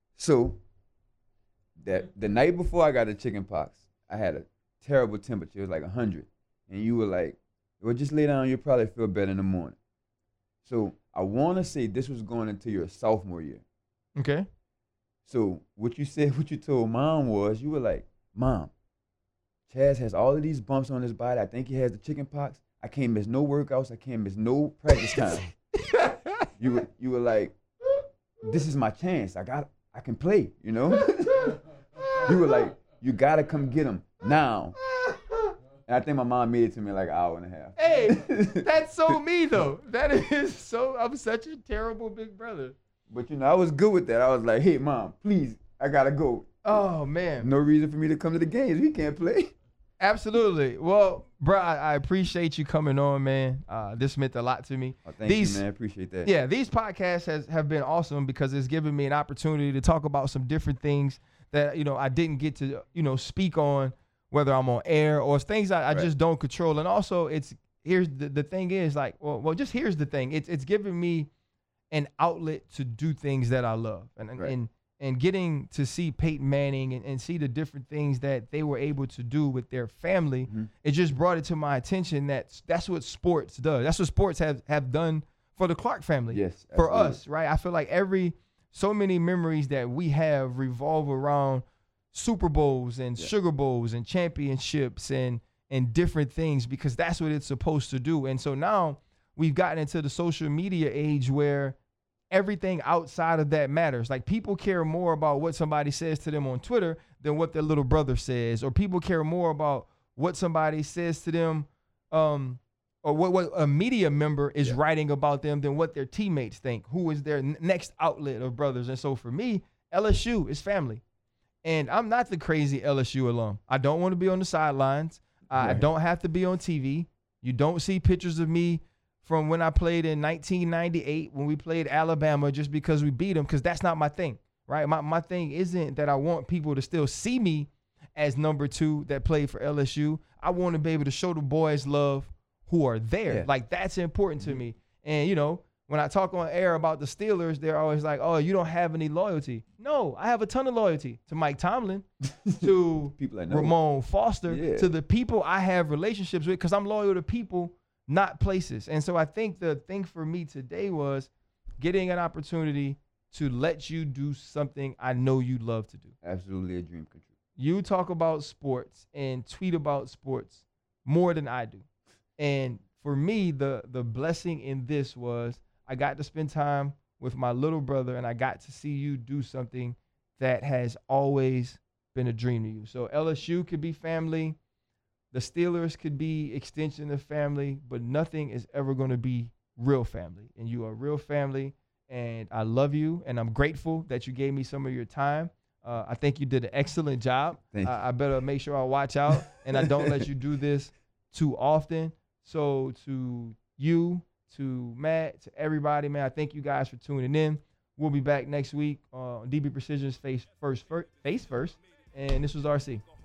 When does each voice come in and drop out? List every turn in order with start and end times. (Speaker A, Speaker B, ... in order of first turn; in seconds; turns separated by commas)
Speaker A: 0.2-0.6, Speaker A: 1.8-9.8, Speaker A: 10.6-13.6, Speaker B: 14.2-14.5, Speaker A: 15.3-18.7, Speaker A: 19.7-25.4, Speaker B: 25.9-26.5, Speaker A: 26.6-27.6, Speaker A: 28.4-31.6, Speaker B: 30.9-32.3, Speaker A: 32.1-34.8, Speaker B: 34.8-35.5, Speaker A: 35.9-39.2, Speaker B: 37.8-42.8, Speaker A: 43.1-46.9, Speaker B: 46.6-47.5, Speaker A: 47.4-49.5, Speaker B: 50.0-55.6, Speaker A: 55.0-56.3, Speaker B: 56.2-71.3, Speaker B: 71.9-101.8, Speaker A: 86.3-87.2, Speaker B: 102.3-121.0, Speaker B: 121.6-152.1, Speaker A: 125.5-125.8, Speaker A: 152.2-153.8, Speaker B: 152.6-166.1, Speaker A: 154.5-154.9, Speaker A: 166.2-167.3, Speaker B: 167.6-171.9, Speaker B: 172.4-184.6, Speaker B: 185.3-213.0, Speaker A: 197.7-198.0, Speaker A: 199.8-200.2